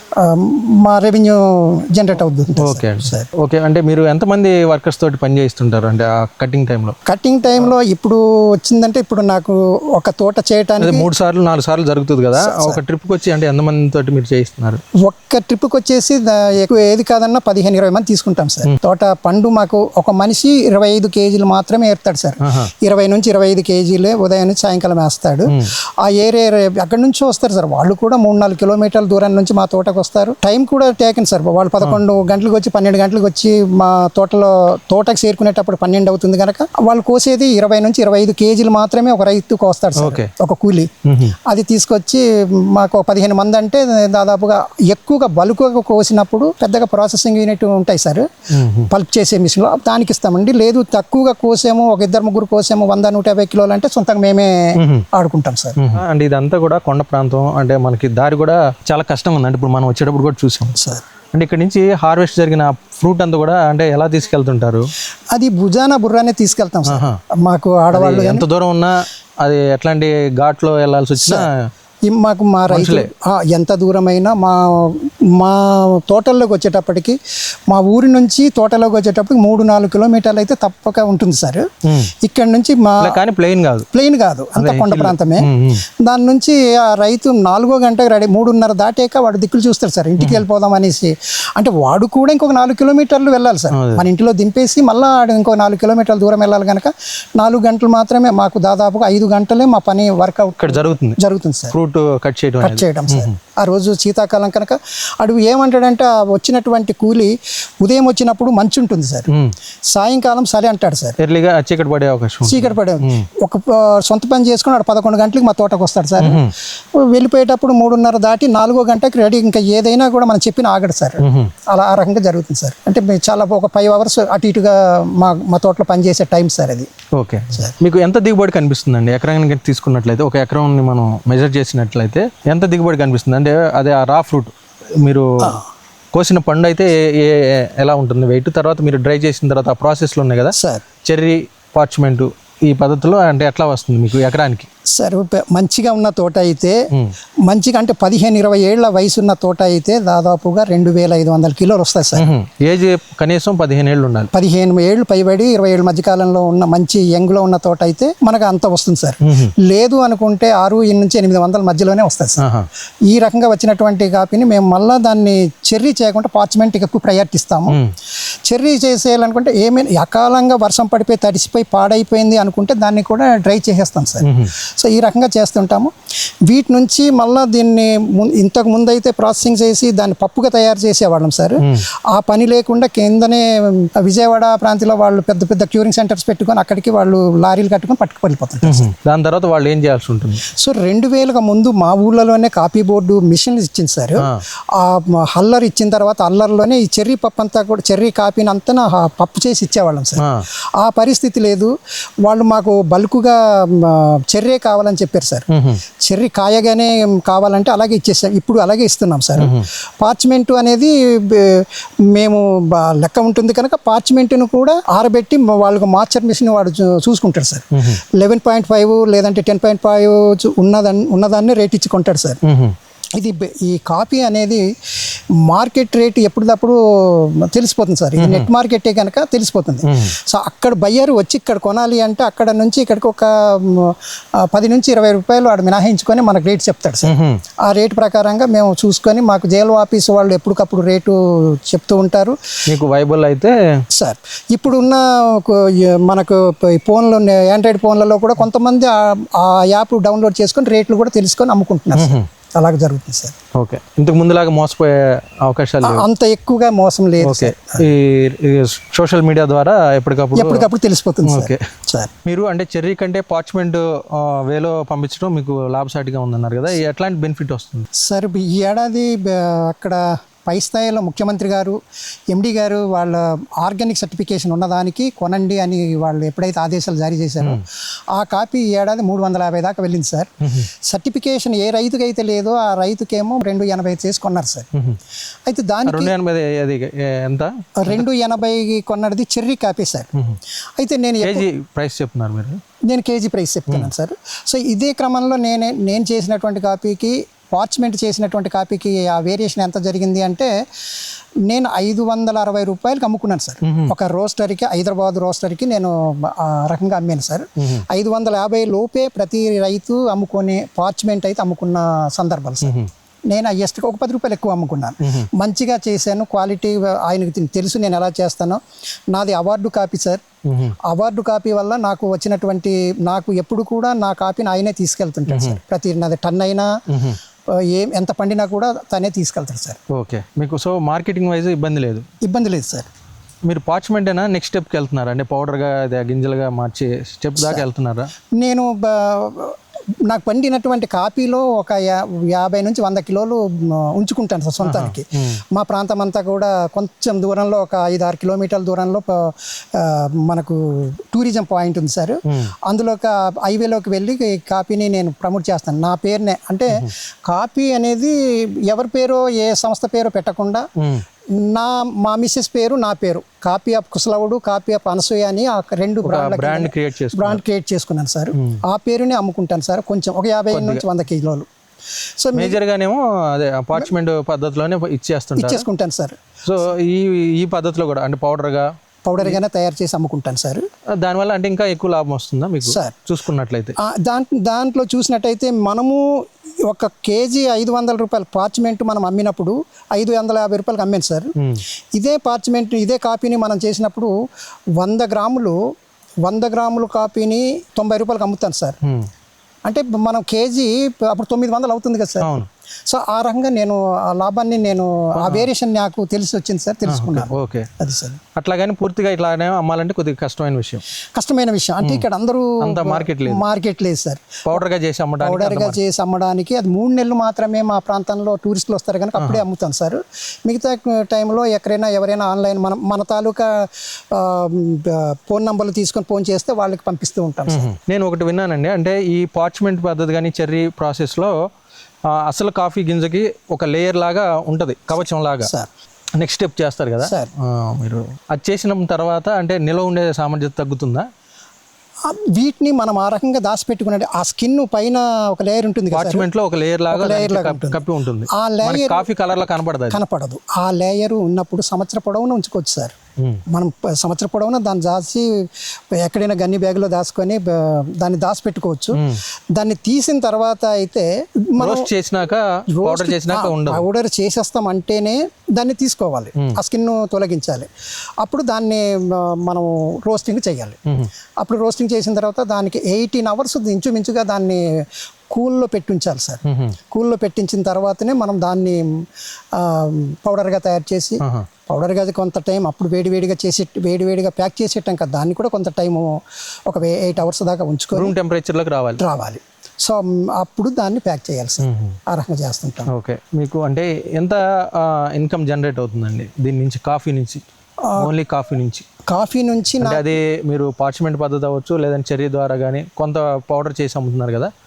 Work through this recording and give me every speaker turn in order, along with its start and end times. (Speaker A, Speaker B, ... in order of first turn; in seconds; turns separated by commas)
Speaker A: 0.2-3.3, Speaker B: 2.6-7.0, Speaker A: 7.1-11.1, Speaker B: 10.8-14.8, Speaker A: 12.4-12.8, Speaker A: 15.1-40.9, Speaker B: 22.4-22.7, Speaker B: 40.0-40.3, Speaker B: 41.0-41.4, Speaker A: 41.5-48.3, Speaker B: 48.5-48.9, Speaker A: 48.9-54.5, Speaker B: 54.8-55.1, Speaker A: 55.1-55.8, Speaker B: 55.8-60.8, Speaker A: 60.8-61.0, Speaker B: 61.3-64.9, Speaker A: 65.3-68.5, Speaker B: 66.9-67.2, Speaker B: 67.9-71.7, Speaker A: 71.2-71.5, Speaker A: 72.1-77.2, Speaker B: 72.7-73.1, Speaker A: 77.7-81.7, Speaker B: 81.9-82.1, Speaker A: 82.2-83.2, Speaker B: 83.0-83.9, Speaker A: 83.9-85.5, Speaker B: 84.6-85.8, Speaker A: 86.0-101.8, Speaker B: 90.2-90.5, Speaker B: 93.7-94.0, Speaker B: 100.6-101.2, Speaker B: 101.7-103.4, Speaker A: 102.6-109.3, Speaker A: 109.9-111.2, Speaker B: 111.2-113.3, Speaker A: 112.5-116.4, Speaker B: 116.2-116.5, Speaker A: 117.1-126.9, Speaker B: 121.2-121.5, Speaker B: 127.2-135.5, Speaker B: 136.1-144.7, Speaker A: 140.5-140.9, Speaker A: 145.0-146.8, Speaker A: 147.5-152.3, Speaker B: 152.2-154.3, Speaker A: 154.3-162.4, Speaker B: 159.2-159.5, Speaker B: 162.4-162.7, Speaker A: 163.1-167.8, Speaker A: 168.5-175.9, Speaker B: 174.2-174.5, Speaker A: 176.5-188.9, Speaker B: 188.6-190.4, Speaker A: 190.5-200.3, Speaker B: 200.2-200.5, Speaker A: 200.8-201.7, Speaker A: 202.2-205.5, Speaker B: 205.5-205.8, Speaker A: 206.1-211.6, Speaker B: 209.4-209.7, Speaker A: 212.1-217.7, Speaker B: 217.8-218.0, Speaker A: 218.2-222.4, Speaker B: 222.4-222.8, Speaker A: 223.2-224.6, Speaker A: 225.4-233.9, Speaker B: 228.2-228.5, Speaker B: 229.8-230.1, Speaker A: 234.5-237.1, Speaker B: 237.1-237.4, Speaker A: 237.7-241.2, Speaker A: 241.7-242.4, Speaker B: 242.7-243.6, Speaker A: 243.9-253.3, Speaker B: 251.9-252.3, Speaker B: 253.6-256.1, Speaker A: 255.8-257.8, Speaker B: 257.2-260.7, Speaker A: 260.4-262.1, Speaker B: 261.2-261.6, Speaker B: 262.2-267.9, Speaker A: 268.1-271.8, Speaker A: 272.3-280.3, Speaker B: 280.4-280.7, Speaker A: 280.9-284.7, Speaker A: 285.5-286.1, Speaker B: 285.9-288.1, Speaker A: 287.8-290.1, Speaker A: 290.8-291.5, Speaker B: 291.2-292.6, Speaker A: 292.9-300.5, Speaker A: 301.5-312.8, Speaker B: 303.6-303.9, Speaker B: 307.6-307.8, Speaker B: 312.6-312.9, Speaker A: 313.3-318.6, Speaker A: 319.1-320.2, Speaker B: 320.5-320.8, Speaker A: 320.9-326.7, Speaker B: 325.3-325.6, Speaker B: 326.9-327.2, Speaker A: 327.7-329.8, Speaker B: 329.9-332.1, Speaker A: 332.2-332.9, Speaker B: 333.5-338.1, Speaker A: 337.4-337.6, Speaker A: 338.4-358.1, Speaker B: 344.6-345.4, Speaker A: 358.7-360.6, Speaker B: 360.8-361.0, Speaker A: 361.5-371.5, Speaker B: 366.0-367.4, Speaker B: 370.5-370.8, Speaker A: 372.2-372.6, Speaker B: 372.4-375.6, Speaker A: 375.4-376.2, Speaker B: 376.4-378.7, Speaker A: 379.1-380.6, Speaker B: 381.0-383.8, Speaker A: 382.6-383.0, Speaker A: 383.8-386.0, Speaker A: 386.7-391.3, Speaker B: 391.4-391.6, Speaker A: 392.0-394.1, Speaker A: 394.8-395.6, Speaker A: 396.2-398.8, Speaker A: 399.7-408.2, Speaker B: 402.2-402.5, Speaker B: 405.2-405.5, Speaker B: 406.9-407.7, Speaker B: 408.4-410.8, Speaker A: 411.1-414.6, Speaker B: 412.6-413.4, Speaker B: 414.4-415.8, Speaker A: 415.2-427.7, Speaker B: 419.2-419.4, Speaker B: 427.5-431.3, Speaker B: 432.1-435.5, Speaker A: 435.4-435.7, Speaker B: 436.2-441.1, Speaker A: 437.0-437.3, Speaker A: 442.1-446.3, Speaker B: 445.9-450.0, Speaker A: 446.9-449.1, Speaker A: 449.9-452.9, Speaker A: 453.5-455.3, Speaker A: 456.0-459.0, Speaker B: 458.9-459.2, Speaker A: 459.6-461.9, Speaker B: 461.6-463.9, Speaker A: 462.7-467.7, Speaker A: 468.2-470.8, Speaker A: 471.4-474.6, Speaker A: 475.3-476.4, Speaker B: 476.4-476.8, Speaker A: 476.9-478.8, Speaker A: 479.6-486.1, Speaker A: 486.7-488.1, Speaker B: 487.9-489.0, Speaker A: 489.0-492.9, Speaker B: 491.6-492.0, Speaker B: 492.9-497.4, Speaker A: 497.9-498.1, Speaker B: 498.0-498.9, Speaker A: 499.1-500.1, Speaker B: 499.8-504.5